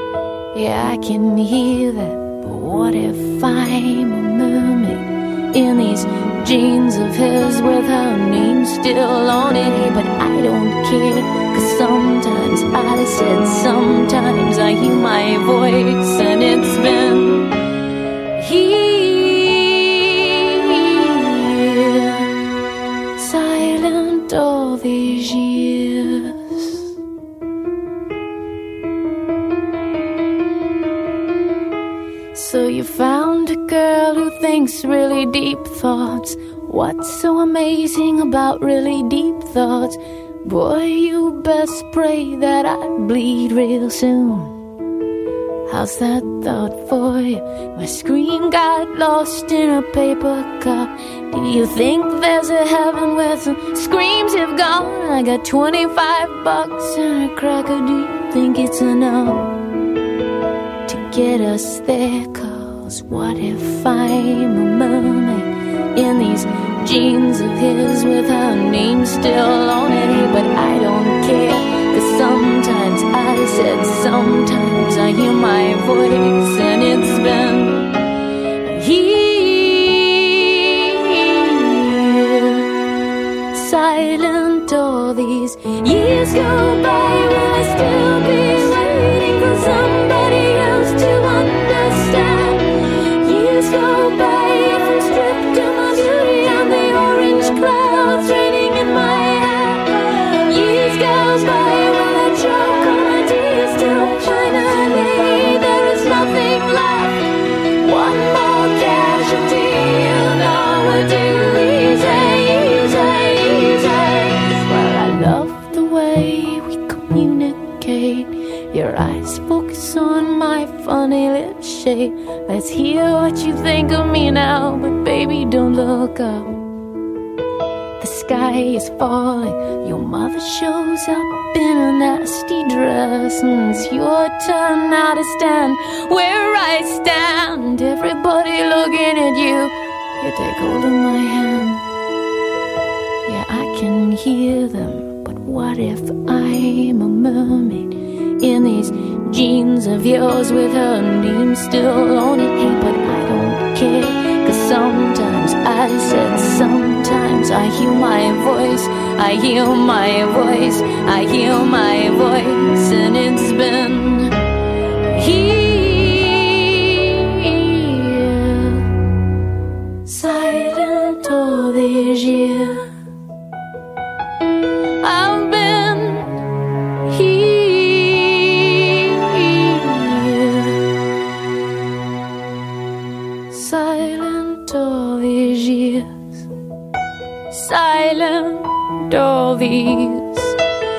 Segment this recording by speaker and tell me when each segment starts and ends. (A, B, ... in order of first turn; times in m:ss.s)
0:00.5-0:17.5 A
0:18.4-0:22.3 A
0:23.2-0:26.7 A
0:32.3-0:44.6 A
0:45.7-0:59.5 A
1:00.9-1:17.9 A
1:18.7-1:22.7 A
1:23.5-1:32.7 A
1:33.2-1:47.2 A
1:47.8-2:06.5 A
2:08.0-2:21.8 A
2:23.3-2:44.3 A
2:45.1-2:48.8 A
2:50.1-2:52.9 A
2:55.0-2:56.3 A
2:57.1-3:00.8 A
3:03.5-3:06.4 A
3:07.5-3:10.6 A